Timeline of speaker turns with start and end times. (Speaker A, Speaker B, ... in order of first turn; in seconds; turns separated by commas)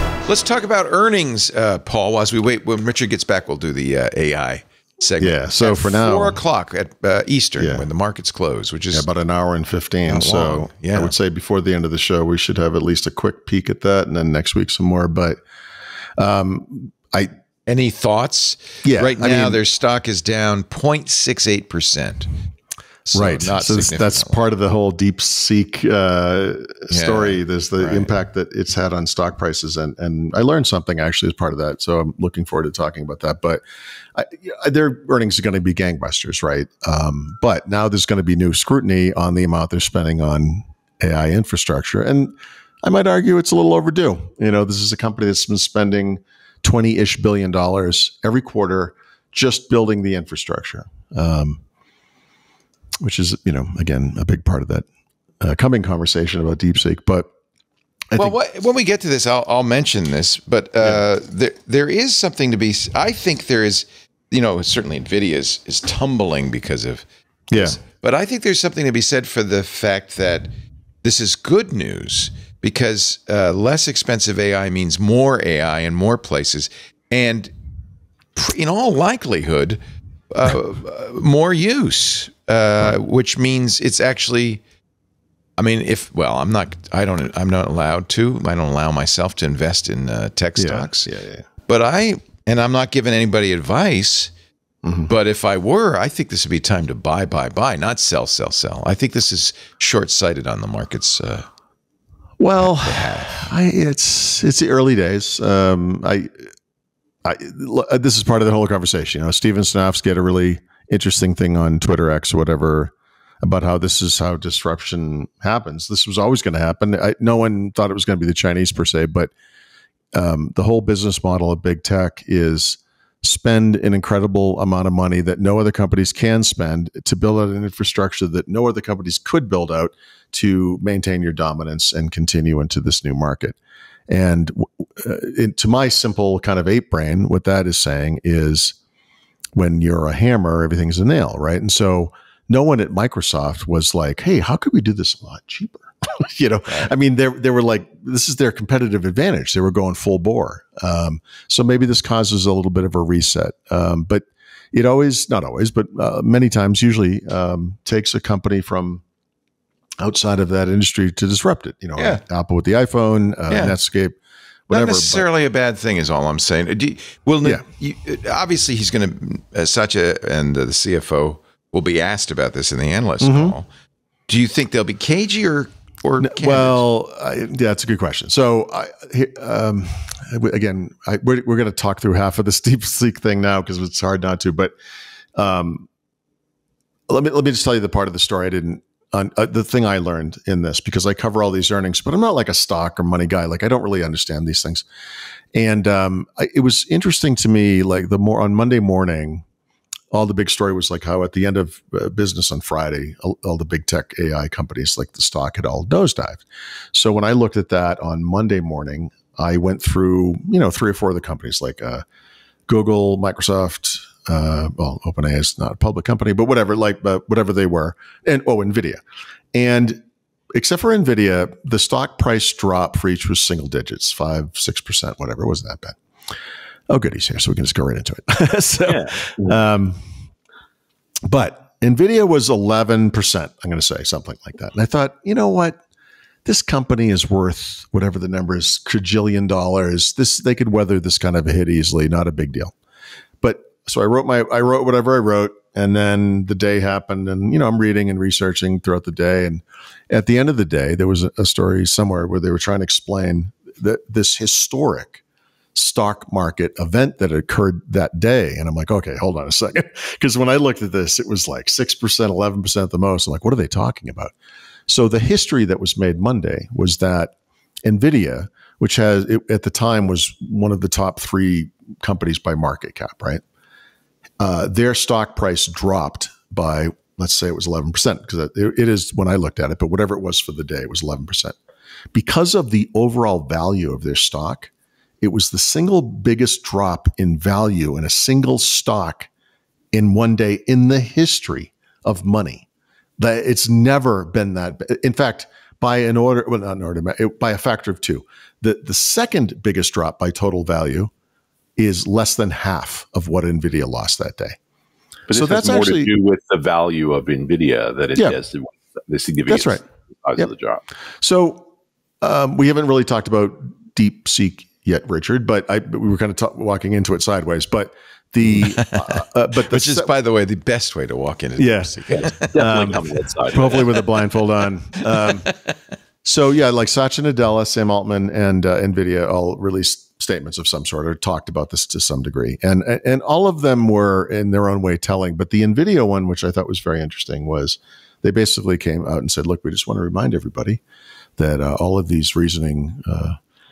Speaker A: 0.2-9.1, Speaker B: 5.2-6.4, Speaker B: 7.6-7.9, Speaker B: 8.9-15.4, Speaker A: 10.1-11.2, Speaker B: 16.2-17.3, Speaker A: 17.7-22.3, Speaker B: 18.8-19.6, Speaker A: 23.1-24.4, Speaker B: 23.1-33.6, Speaker A: 26.9-28.1, Speaker B: 34.1-51.6, Speaker B: 53.0-54.9, Speaker B: 55.4-57.3, Speaker B: 58.1-58.4, Speaker A: 58.2-70.5, Speaker B: 67.5-67.8, Speaker A: 71.0-77.5, Speaker A: 78.3-79.8, Speaker A: 80.3-84.6, Speaker A: 85.6-91.1, Speaker B: 90.6-91.5, Speaker A: 91.7-94.3, Speaker B: 94.8-95.1, Speaker A: 95.1-101.5, Speaker B: 102.4-106.3, Speaker A: 102.7-103.5, Speaker B: 107.2-119.3, Speaker B: 120.1-133.6, Speaker B: 134.1-138.8, Speaker B: 139.6-159.0, Speaker A: 146.7-146.9, Speaker B: 160.0-164.2, Speaker A: 162.0-162.2, Speaker A: 163.5-163.8, Speaker B: 164.7-165.3, Speaker A: 164.7-173.7, Speaker B: 173.2-173.6, Speaker A: 174.3-176.9, Speaker B: 176.2-184.7, Speaker B: 185.4-185.9, Speaker B: 187.1-194.8, Speaker B: 195.5-199.4, Speaker B: 200.1-212.0, Speaker B: 212.7-219.0, Speaker B: 219.5-220.0, Speaker B: 220.5-226.0, Speaker B: 226.9-230.0, Speaker C: 228.9-229.6, Speaker B: 231.3-235.8, Speaker B: 236.4-242.7, Speaker B: 243.4-255.2, Speaker B: 255.8-264.3, Speaker B: 264.9-267.3, Speaker B: 267.9-273.4, Speaker B: 274.4-281.6, Speaker B: 282.1-289.3, Speaker B: 289.9-292.7, Speaker B: 293.2-301.1, Speaker B: 301.8-304.6, Speaker C: 305.3-310.8, Speaker B: 305.3-306.1, Speaker B: 309.5-309.8, Speaker B: 311.2-311.7, Speaker B: 312.2-320.1, Speaker A: 318.5-322.9, Speaker B: 321.6-322.0, Speaker C: 322.1-324.1, Speaker B: 322.6-325.5, Speaker A: 325.2-325.6, Speaker B: 326.2-340.8, Speaker B: 341.4-343.4